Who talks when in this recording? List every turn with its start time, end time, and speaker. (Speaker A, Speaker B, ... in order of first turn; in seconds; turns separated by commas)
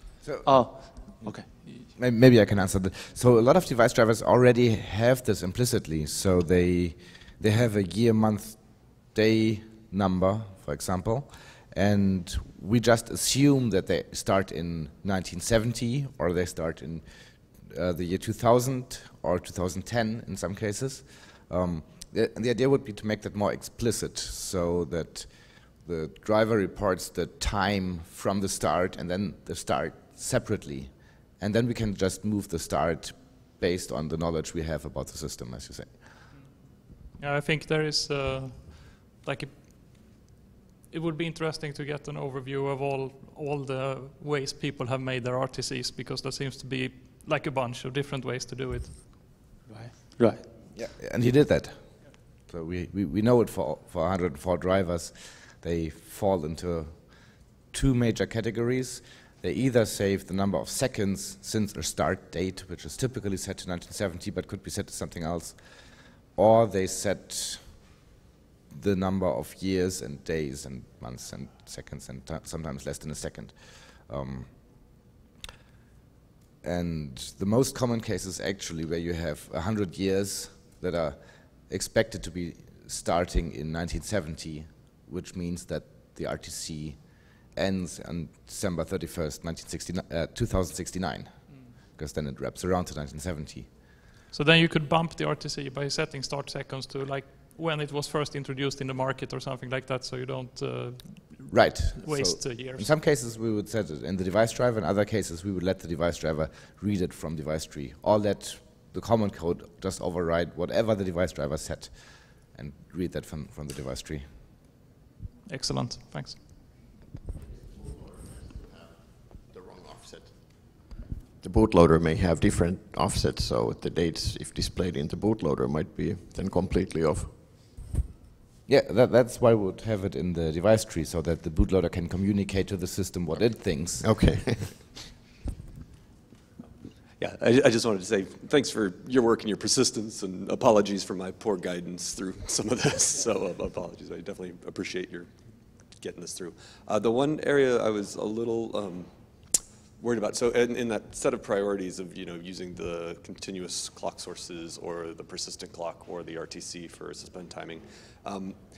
Speaker A: 0.2-36.0, Speaker B: 0.4-1.8, Speaker C: 37.2-40.2, Speaker C: 40.9-49.0, Speaker B: 49.7-50.5, Speaker A: 50.7-67.9, Speaker A: 68.7-74.9, Speaker A: 76.6-93.7, Speaker C: 94.3-102.9, Speaker A: 101.5-114.2, Speaker C: 115.5-116.4, Speaker D: 117.7-120.8, Speaker D: 121.4-127.3, Speaker A: 128.7-134.1, Speaker D: 134.0-134.9, Speaker E: 137.2-145.3, Speaker E: 146.0-149.1, Speaker E: 150.0-158.6